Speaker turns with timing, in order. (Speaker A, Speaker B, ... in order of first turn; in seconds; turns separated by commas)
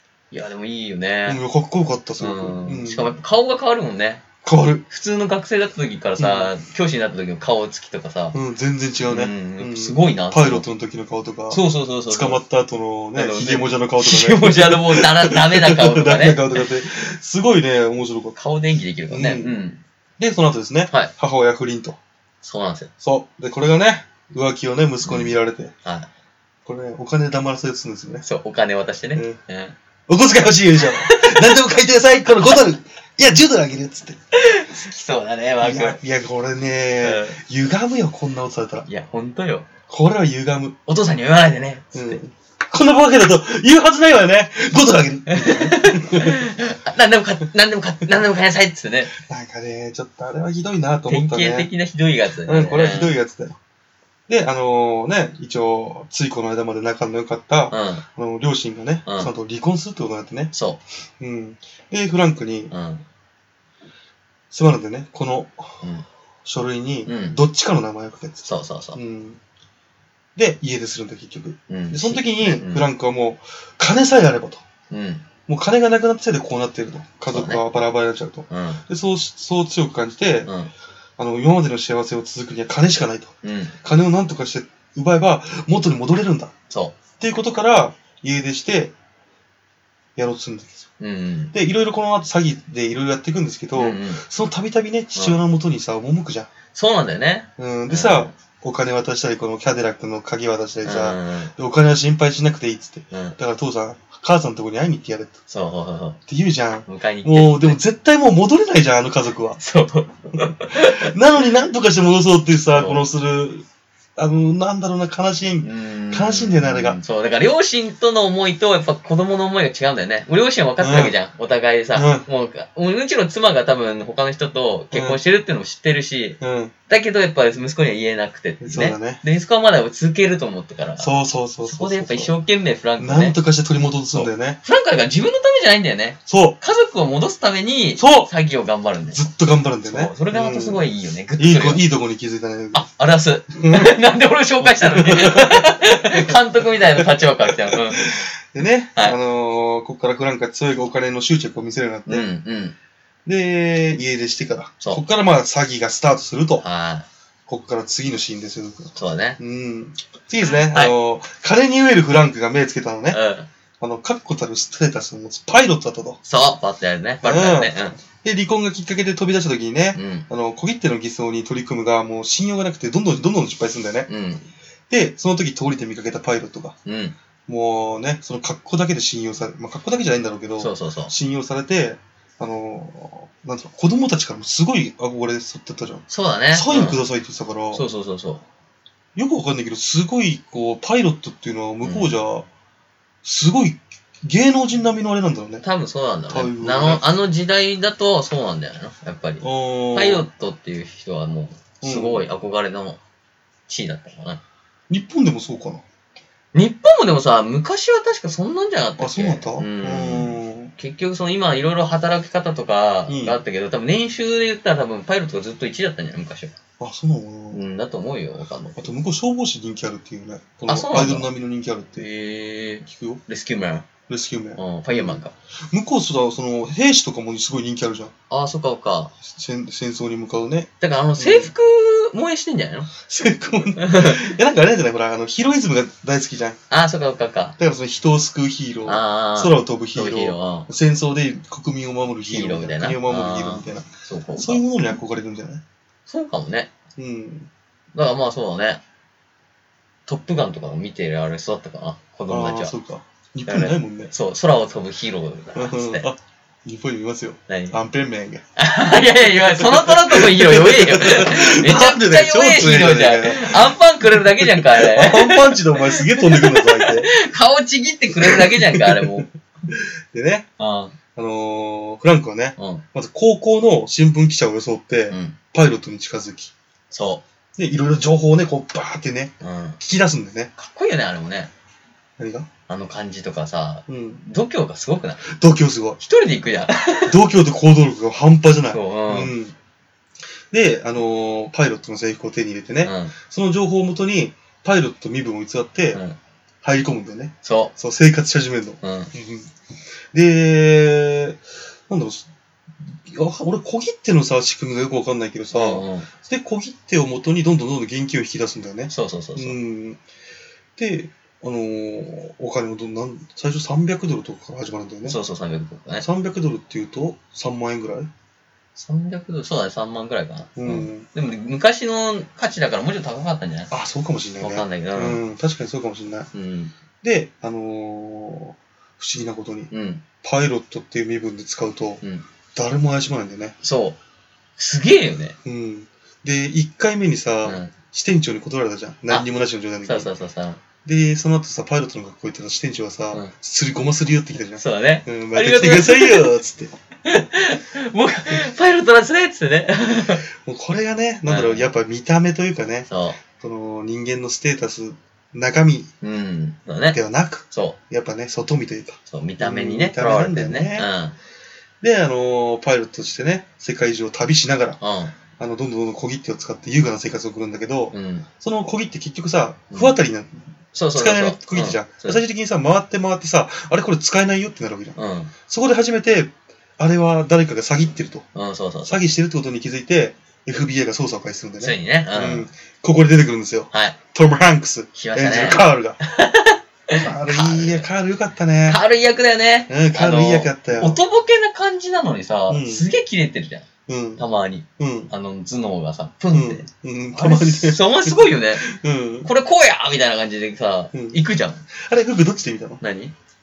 Speaker A: 0.3-1.4, Speaker B: 1.2-3.1, Speaker A: 2.2-4.2, Speaker B: 4.4-4.8, Speaker A: 4.9-8.3, Speaker B: 6.2-6.5, Speaker B: 8.3-18.4, Speaker A: 9.1-10.7, Speaker A: 11.5-12.4, Speaker A: 13.1-16.6, Speaker A: 18.4-19.8, Speaker B: 19.1-19.6, Speaker B: 20.2-22.0, Speaker A: 22.4-22.9, Speaker B: 23.0-25.7, Speaker A: 25.0-26.1, Speaker B: 26.6-28.2, Speaker A: 28.2-29.7, Speaker B: 30.1-34.1, Speaker A: 30.8-31.5, Speaker A: 34.3-36.0, Speaker B: 35.6-38.9, Speaker A: 37.0-37.4, Speaker A: 38.9-39.7, Speaker B: 39.9-40.8, Speaker A: 40.9-42.2, Speaker B: 41.9-46.5, Speaker A: 45.3-49.1, Speaker B: 49.1-51.7, Speaker A: 51.1-53.1, Speaker B: 52.4-53.5, Speaker B: 54.3-60.5, Speaker A: 57.7-58.0, Speaker A: 59.0-59.3, Speaker A: 60.5-60.8, Speaker B: 61.2-62.7, Speaker A: 62.7-63.0, Speaker B: 64.5-65.8, Speaker B: 66.4-69.4, Speaker A: 67.0-67.4, Speaker A: 68.4-69.0, Speaker B: 70.3-74.6, Speaker A: 71.7-72.9, Speaker A: 74.9-75.2, Speaker B: 75.5-80.5, Speaker A: 77.3-77.6, Speaker A: 78.5-78.8, Speaker A: 80.5-80.7, Speaker B: 81.2-86.5, Speaker A: 83.4-83.8, Speaker A: 86.7-87.0, Speaker B: 87.2-88.9, Speaker B: 90.2-90.8, Speaker A: 91.0-91.5, Speaker B: 91.5-96.5, Speaker A: 93.7-94.2, Speaker A: 96.7-98.3, Speaker B: 97.6-105.4, Speaker A: 100.8-101.5, Speaker A: 103.1-103.4, Speaker A: 105.5-106.2, Speaker B: 106.3-109.6, Speaker A: 106.8-107.8, Speaker A: 109.6-111.1, Speaker B: 110.7-113.6, Speaker A: 112.7-113.0, Speaker B: 114.2-117.0, Speaker A: 115.6-131.1, Speaker B: 120.8-121.1, Speaker B: 121.9-122.2, Speaker B: 124.9-125.2, Speaker B: 126.4-126.7, Speaker B: 128.6-129.2, Speaker B: 131.0-132.3, Speaker A: 131.6-133.4, Speaker B: 133.0-134.6, Speaker A: 134.1-139.2, Speaker B: 136.3-136.6, Speaker B: 138.0-138.3, Speaker B: 139.1-140.8, Speaker A: 139.8-141.8, Speaker B: 141.4-142.8, Speaker A: 142.7-148.0, Speaker B: 143.5-143.9, Speaker B: 144.6-146.4, Speaker B: 147.0-152.3, Speaker A: 152.1-152.7, Speaker B: 153.2-156.6, Speaker A: 156.6-157.1, Speaker B: 157.5-163.2, Speaker A: 158.9-159.4, Speaker A: 163.1-163.5, Speaker B: 163.8-166.2, Speaker A: 166.2-168.0, Speaker B: 167.2-174.1, Speaker A: 169.9-170.2, Speaker A: 174.1-174.5, Speaker B: 174.9-176.8, Speaker A: 176.8-177.1, Speaker B: 177.5-187.9, Speaker A: 180.6-181.1, Speaker A: 186.1-187.0, Speaker A: 187.7-188.4, Speaker B: 189.1-192.4, Speaker A: 191.8-192.1, Speaker B: 193.2-195.6, Speaker A: 195.6-203.0, Speaker B: 196.3-197.1, Speaker B: 199.4-200.3, Speaker B: 201.8-202.2, Speaker A: 203.7-204.4, Speaker B: 204.9-205.8, Speaker A: 206.5-216.5, Speaker B: 209.0-210.7, Speaker B: 213.1-213.4, Speaker B: 216.8-217.6, Speaker A: 217.5-218.8, Speaker B: 218.8-222.1, Speaker A: 220.7-221.3, Speaker A: 222.0-223.9, Speaker B: 222.8-223.2, Speaker B: 224.1-228.1, Speaker A: 224.6-225.3, Speaker A: 228.3-229.1, Speaker B: 229.2-231.5, Speaker A: 230.8-232.9, Speaker B: 233.0-236.6, Speaker A: 233.8-234.3, Speaker A: 236.7-237.6, Speaker B: 237.6-245.6, Speaker A: 238.8-240.7, Speaker A: 242.3-244.6, Speaker A: 246.1-246.7, Speaker B: 247.0-247.5, Speaker A: 247.9-248.8, Speaker A: 250.1-252.7, Speaker B: 252.3-254.1, Speaker A: 253.5-256.1, Speaker B: 255.5-258.4, Speaker A: 257.5-257.8, Speaker A: 258.6-269.3, Speaker B: 259.2-267.1, Speaker B: 268.2-270.5, Speaker A: 270.6-270.9, Speaker B: 271.1-276.5, Speaker A: 272.6-272.8, Speaker A: 275.1-275.4, Speaker A: 276.9-277.2, Speaker B: 277.6-280.5, Speaker A: 279.4-279.8, Speaker A: 280.6-281.5, Speaker B: 282.2-282.5, Speaker A: 282.7-285.2, Speaker B: 283.9-284.2, Speaker B: 285.2-286.0, Speaker A: 286.0-287.2, Speaker B: 287.1-289.5, Speaker A: 288.7-289.3, Speaker B: 290.5-296.0, Speaker A: 292.8-293.1, Speaker B: 296.6-299.5, Speaker A: 297.4-297.7, Speaker A: 298.8-299.1, Speaker B: 300.1-302.3, Speaker B: 302.8-310.0, Speaker A: 305.5-306.1, Speaker A: 308.9-309.6, Speaker B: 310.8-315.2, Speaker A: 315.1-316.0, Speaker B: 316.0-318.1, Speaker A: 318.8-323.7, Speaker B: 320.6-321.1, Speaker B: 323.7-326.3, Speaker A: 324.4-325.2, Speaker A: 326.3-326.7, Speaker B: 327.0-329.7, Speaker A: 329.7-330.0, Speaker B: 330.2-332.0, Speaker B: 332.5-333.5, Speaker A: 333.6-334.0, Speaker A: 334.6-335.4, Speaker B: 335.4-340.1, Speaker A: 337.4-337.7, Speaker A: 339.9-340.6, Speaker B: 340.8-346.7, Speaker A: 344.6-346.3, Speaker A: 347.0-350.2, Speaker B: 350.4-355.9, Speaker A: 351.2-351.7, Speaker A: 352.9-353.2, Speaker A: 356.0-357.0, Speaker B: 356.9-360.9, Speaker A: 357.5-357.8, Speaker A: 359.1-361.1, Speaker B: 361.8-364.8, Speaker A: 364.8-365.1, Speaker B: 365.4-370.4, Speaker A: 367.9-368.3, Speaker A: 370.7-372.2, Speaker B: 370.9-378.2, Speaker A: 374.9-375.3, Speaker A: 378.3-379.0, Speaker B: 378.9-386.0, Speaker A: 381.6-382.5, Speaker A: 383.7-384.0, Speaker A: 384.9-387.9, Speaker B: 386.9-388.8, Speaker A: 388.7-393.6, Speaker B: 389.7-391.0, Speaker B: 392.5-392.9, Speaker B: 393.9-394.2, Speaker A: 394.2-398.7, Speaker B: 394.8-395.1, Speaker B: 396.3-399.3, Speaker A: 399.2-401.6, Speaker B: 400.9-401.2, Speaker B: 401.7-402.8, Speaker A: 402.8-403.1